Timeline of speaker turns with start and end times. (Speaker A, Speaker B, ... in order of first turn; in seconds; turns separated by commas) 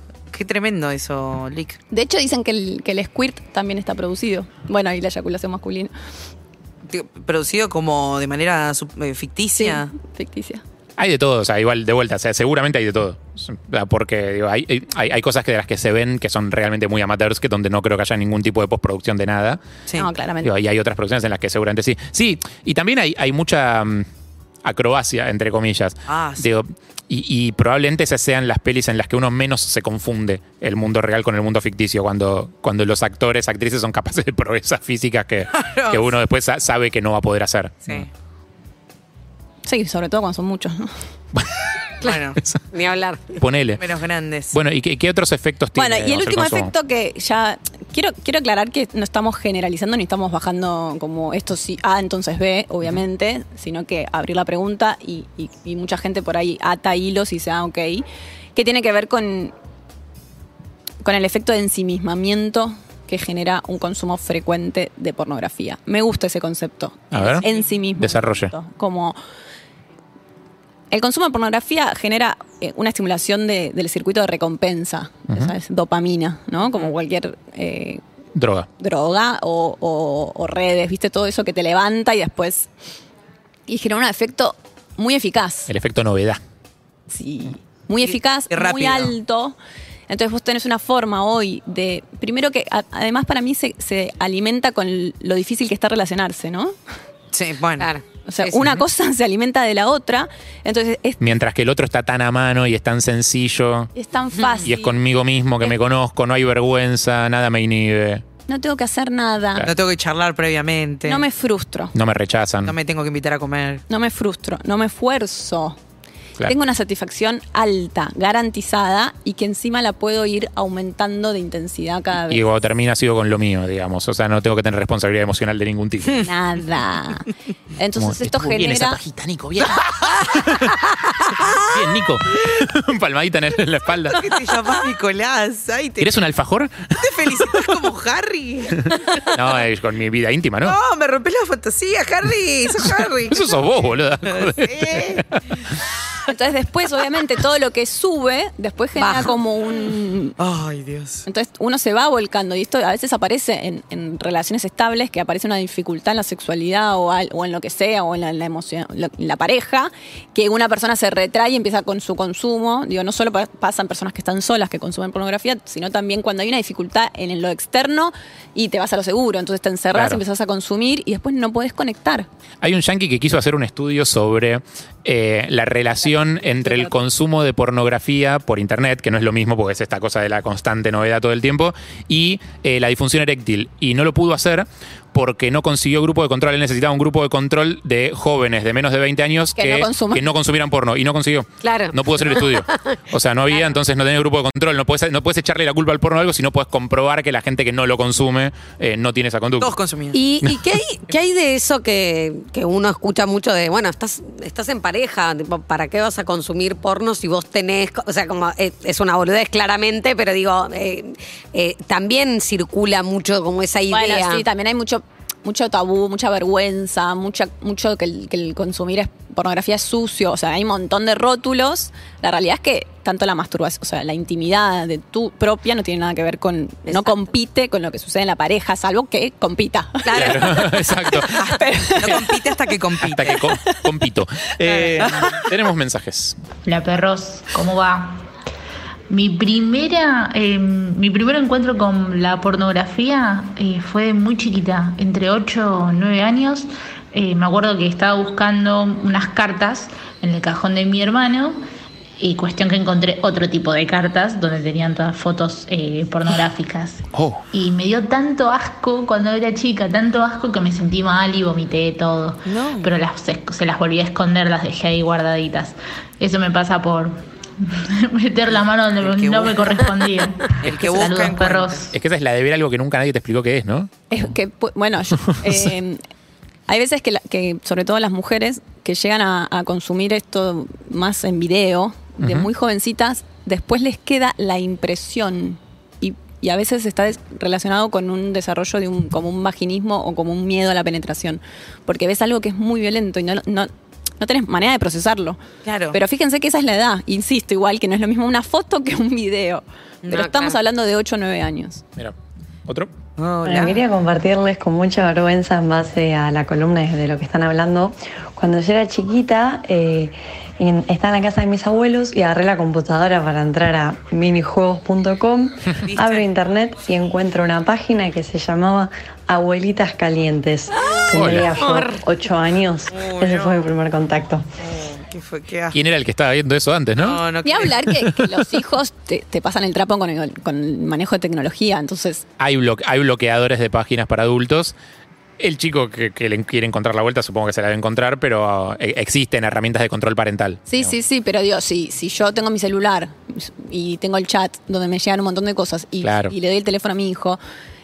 Speaker A: 0.3-1.8, Speaker B: 1.9-5.9, Speaker A: 6.9-9.9, Speaker B: 9.6-10.6, Speaker C: 11.0-19.6, Speaker B: 20.0-20.5, Speaker C: 20.4-24.1, Speaker C: 24.6-38.1, Speaker A: 26.1-26.5, Speaker A: 35.5-36.1, Speaker B: 39.6-40.9, Speaker A: 42.0-42.4, Speaker D: 42.7-43.4, Speaker C: 43.4-43.8, Speaker A: 43.8-44.5, Speaker C: 44.5-46.7, Speaker B: 45.8-59.5, Speaker B: 61.0-69.2, Speaker C: 67.1-68.5, Speaker B: 70.9-78.0, Speaker C: 78.4-78.7, Speaker B: 78.8-82.7, Speaker B: 83.7-85.7, Speaker C: 85.7-86.4, Speaker B: 87.1-89.6, Speaker A: 88.5-89.1, Speaker B: 90.1-96.8, Speaker A: 97.3-97.9, Speaker D: 97.8-98.5, Speaker B: 98.3-101.2, Speaker C: 101.2-103.9, Speaker B: 104.0-105.0, Speaker C: 104.7-108.2, Speaker B: 108.5-109.7, Speaker A: 109.7-111.2, Speaker B: 111.0-111.9, Speaker C: 111.9-112.7, Speaker A: 112.7-113.8, Speaker B: 113.9-115.8, Speaker B: 116.4-122.5, Speaker C: 122.3-126.3, Speaker B: 126.2-129.0, Speaker C: 128.0-134.4, Speaker A: 134.1-136.1, Speaker C: 136.0-137.7, Speaker A: 137.0-139.4, Speaker C: 138.9-140.8, Speaker A: 140.6-145.2, Speaker C: 142.9-145.2, Speaker B: 146.3-150.4, Speaker D: 149.0-149.3, Speaker A: 150.4-151.2, Speaker B: 151.3-172.3, Speaker C: 169.9-170.2, Speaker C: 172.6-199.8, Speaker B: 176.3-176.9, Speaker B: 189.6-190.2, Speaker D: 191.6-192.9, Speaker A: 199.6-200.2, Speaker D: 200.1-214.4, Speaker C: 200.4-200.8, Speaker B: 213.9-232.5, Speaker D: 230.1-230.7, Speaker C: 230.2-232.2, Speaker A: 231.4-233.5, Speaker C: 233.0-236.4, Speaker A: 234.7-235.5, Speaker E: 236.7-238.2, Speaker E: 239.1-251.6, Speaker E: 252.2-271.9, Speaker C: 257.1-257.4, Speaker A: 262.5-262.9, Speaker A: 269.0-269.8, Speaker A: 270.6-271.9, Speaker C: 271.9-273.9, Speaker B: 274.1-276.0, Speaker B: 276.7-295.4, Speaker C: 282.2-282.5, Speaker A: 295.6-296.0, Speaker B: 295.9-301.8, Speaker D: 300.1-300.6, Speaker A: 303.2-303.8, Speaker F: 303.4-324.4, Speaker A: 315.8-316.3, Speaker C: 321.1-321.5, Speaker A: 321.6-321.9, Speaker A: 322.9-323.6, Speaker A: 324.6-325.8, Speaker C: 325.7-327.2, Speaker A: 327.0-327.8, Speaker B: 327.4-332.2, Speaker C: 332.4-334.7, Speaker C: 335.4-340.9, Speaker B: 340.7-347.4, Speaker C: 346.0-346.3